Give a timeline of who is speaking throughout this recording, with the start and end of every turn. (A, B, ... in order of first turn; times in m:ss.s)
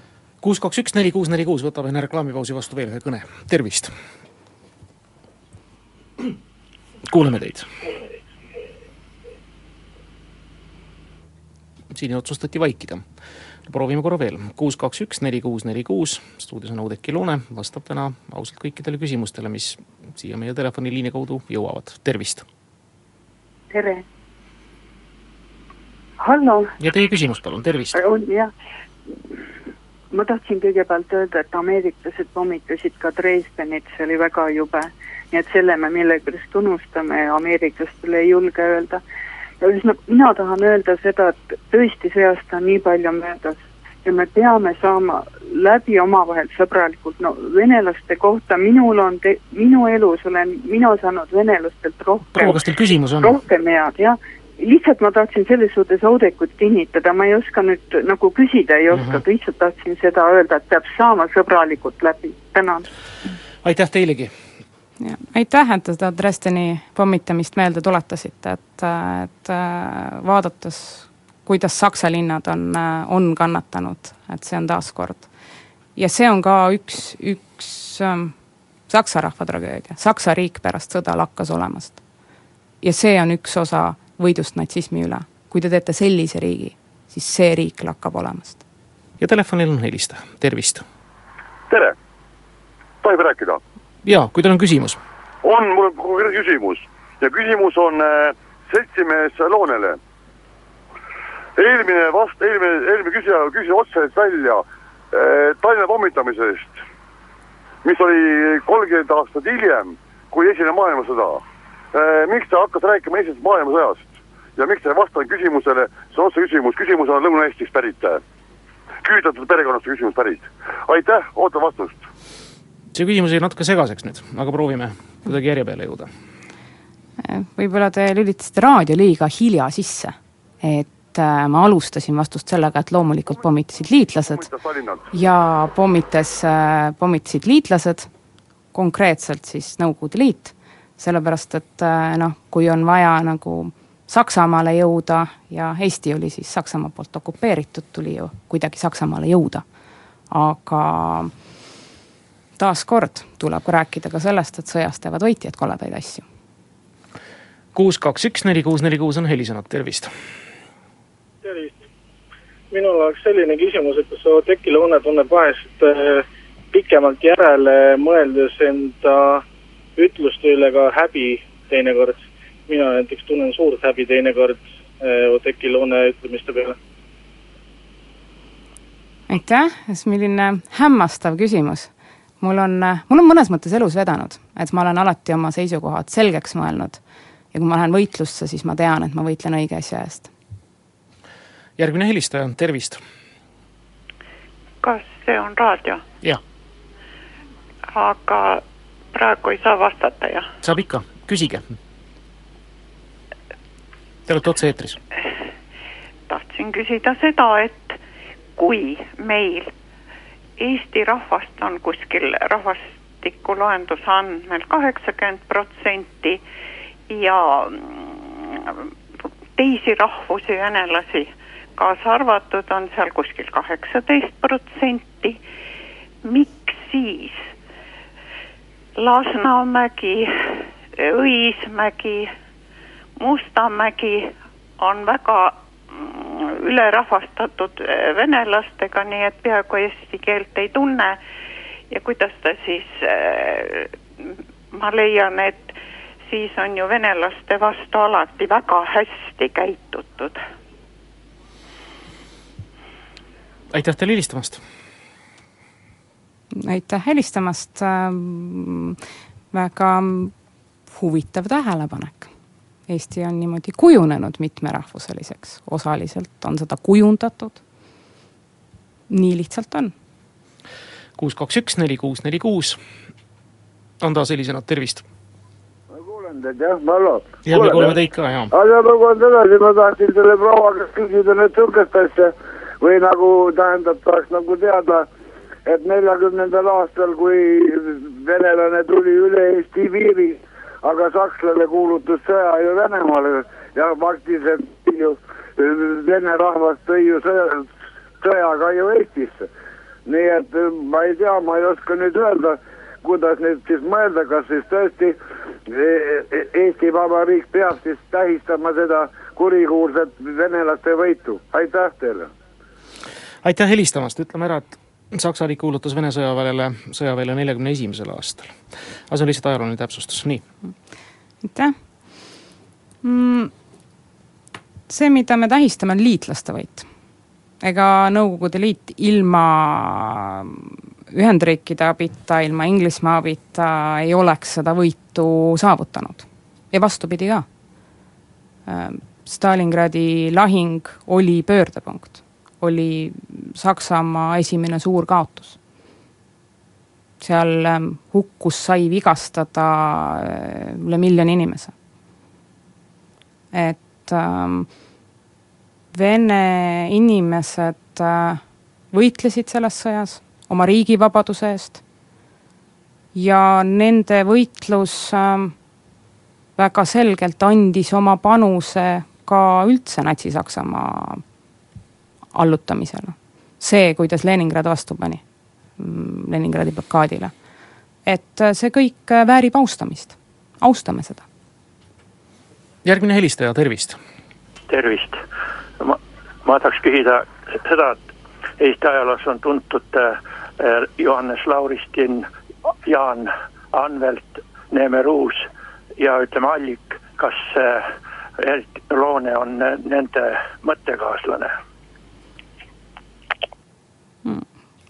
0:00.4-0:03.9 A
0:07.0-0:07.7 A
0:11.9-0:13.0 A
0:13.7-0:22.4 A
0:23.7-0:24.0 B
0:26.2-0:26.7 B
0:26.8-0:28.0 A
0:27.9-0:28.5 B
0:30.1-0:39.0 B
0:39.6-0:52.6 B
0:52.3-0:53.4 A
0:53.2-1:02.8 B
0:58.9-0:59.2 A
1:03.6-1:04.3 A
1:05.0-1:15.3 C
1:16.0-1:18.3 C
1:18.9-1:22.0 C
1:22.8-1:28.6 C
1:29.2-1:30.8 A
1:31.7-1:32.0 D
1:33.0-1:33.6 D
1:34.0-1:35.0 A
1:35.4-1:40.0 D
1:41.6-1:46.8 D
1:47.8-1:58.2 D
1:59.0-2:02.0 D
2:02.9-2:06.1 A
2:07.2-2:14.5 C
2:14.4-2:15.1 D
2:15.1-2:18.1 C
2:18.7-2:29.6 C
2:30.3-2:31.3 C
2:32.6-2:36.2 C
2:37.8-2:40.1 A
2:41.4-2:41.8 E
2:42.7-2:49.4 E
2:50.0-2:56.8 E
2:59.3-3:07.0 C
3:07.5-3:10.3 C
3:11.8-3:13.0 A
3:14.8-3:16.0 F
3:17.9-3:20.5 F
3:20.6-3:21.7 A
3:24.3-3:25.0 A
3:26.3-3:28.0 F
3:28.6-3:29.7 F
3:30.6-3:36.4 F
3:37.1-3:38.9 F
3:39.6-3:45.4 F
3:46.2-3:47.5 F
3:49.0-3:52.3 F
3:53.2-4:01.2 F
4:01.9-4:04.0 F
4:04.7-4:10.4 F
4:13.7-4:14.6 A
4:16.5-4:19.0 C
4:19.5-4:20.3 C
4:20.9-4:22.3 C
4:22.9-4:27.6 C
4:29.1-4:29.9 C
4:31.2-4:32.8 A
4:34.0-4:35.0 A
4:35.9-4:38.0 G
4:37.5-4:38.5 A
4:38.5-4:45.1 G
4:45.7-4:57.7 G
4:58.2-4:59.5 G
5:00.1-5:12.3 G
5:13.4-5:20.4 A
5:21.4-5:21.8 C
5:23.0-5:23.5 C
5:24.9-5:26.9 C
5:27.6-5:37.4 C
5:38.7-5:45.6 C
5:47.2-5:51.7 C
5:53.5-5:54.7 C
5:55.9-6:01.8 C
6:03.1-6:05.5 C
6:06.6-6:11.2 C
6:12.3-6:15.2 C
6:15.8-6:17.3 C
6:18.1-6:21.2 C
6:22.8-6:24.0 A
6:24.7-6:25.2 H
6:25.8-6:28.0 H
6:28.6-6:32.3 H
6:32.8-6:35.5 H
6:36.0-6:37.9 H
6:38.4-6:41.5 H